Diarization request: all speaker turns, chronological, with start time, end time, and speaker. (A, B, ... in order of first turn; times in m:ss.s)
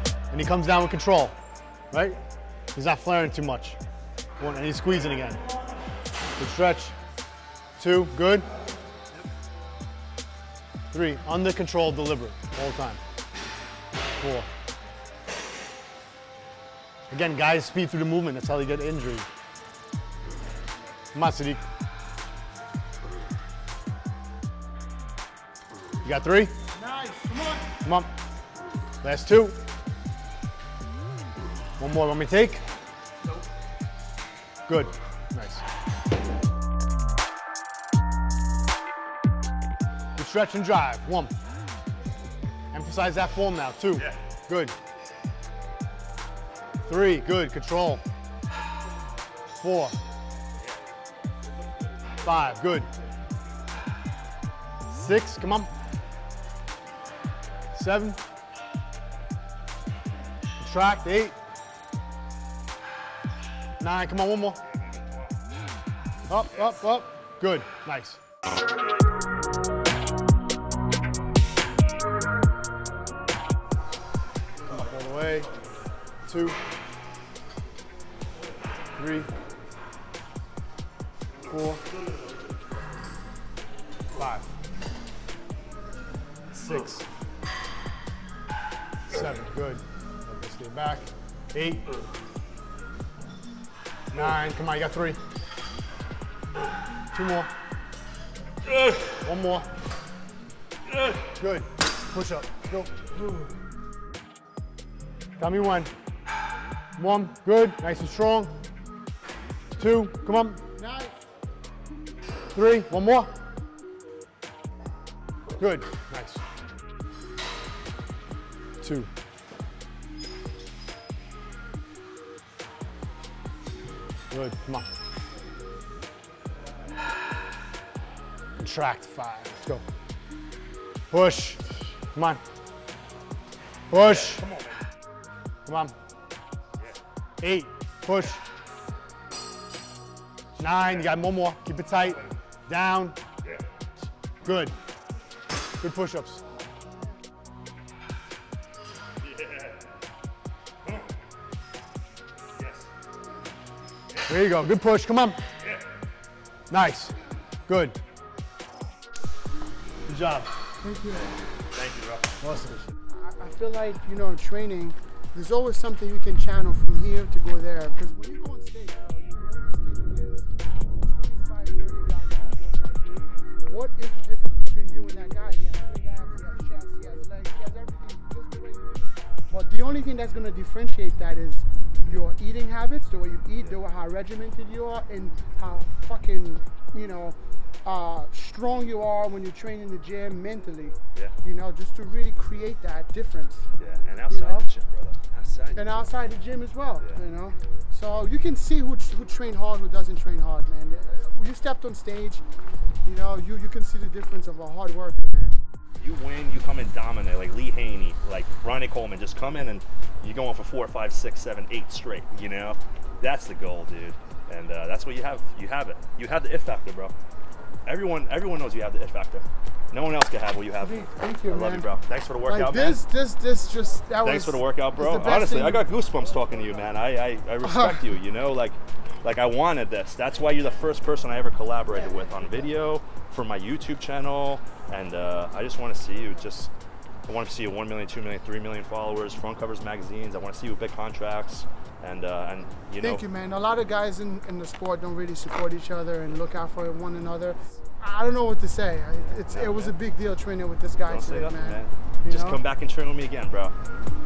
0:00.3-0:01.4 A
0:01.9-0:02.2 A
0:02.7-0:03.8 A
0:04.4-0:05.4 A
0:06.4-0:07.0 A
0:07.8-0:08.5 A
0:10.9-0:13.0 A
0:14.2-0:14.5 A
0:17.1-0:19.3 A
0:21.1-0:21.6 A
0:26.0-0:26.5 A
0:26.7-0:27.7 B
0:27.8-0:28.1 A
0:29.0-0:29.6 A
0:31.8-0:32.6 A
0:34.7-0:35.6 A
0:40.2-0:41.3 A
0:42.7-0:44.7 A
0:46.8-0:48.0 A
0:49.6-0:50.0 A
0:52.2-0:52.9 A
0:54.9-0:55.7 A
0:57.7-0:58.2 A
1:00.6-1:01.4 A
1:03.8-1:04.6 A
1:06.3-1:08.2 A
1:14.6-1:15.5 A
1:16.2-1:16.6 A
1:18.9-1:19.3 A
1:21.4-1:21.8 A
1:24.1-1:24.5 A
1:26.5-1:27.0 A
1:29.1-1:31.9 A
1:34.1-1:35.2 A
1:37.1-1:37.5 A
1:38.8-1:39.0 C
1:39.2-1:39.7 A
1:41.4-1:42.9 A
1:45.4-1:45.9 A
1:47.0-1:48.5 A
1:49.8-1:50.6 A
1:50.7-1:51.2 B
1:52.5-1:53.3 A
1:55.6-1:56.4 A
1:58.8-1:59.1 A
2:04.3-2:04.9 A
2:08.6-2:09.8 A
2:11.1-2:12.4 A
2:13.9-2:14.5 A
2:13.9-2:14.8 C
2:15.6-2:15.9 A
2:17.4-2:18.4 A
2:20.6-2:23.2 A
2:24.4-2:24.7 A
2:25.8-2:26.4 A
2:29.2-2:29.8 C
2:32.6-2:32.9 C
2:34.3-2:35.4 A
2:36.7-2:37.1 A
2:37.7-2:38.0 A
2:40.1-2:40.5 A
2:40.8-2:41.3 B
2:41.7-2:42.4 C
2:42.4-2:42.9 A
2:43.1-3:13.6 B
3:13.8-3:16.0 C
3:14.3-3:14.7 B
3:15.7-3:22.4 B
3:23.0-3:25.6 B
3:26.0-3:37.1 C
3:37.8-3:43.0 C
3:40.8-3:41.9 B
3:42.4-3:45.8 B
3:44.2-3:56.7 C
3:47.6-3:48.0 B
3:57.2-4:03.2 C
4:03.0-4:12.6 B
4:09.3-4:09.9 C
4:11.1-4:13.7 C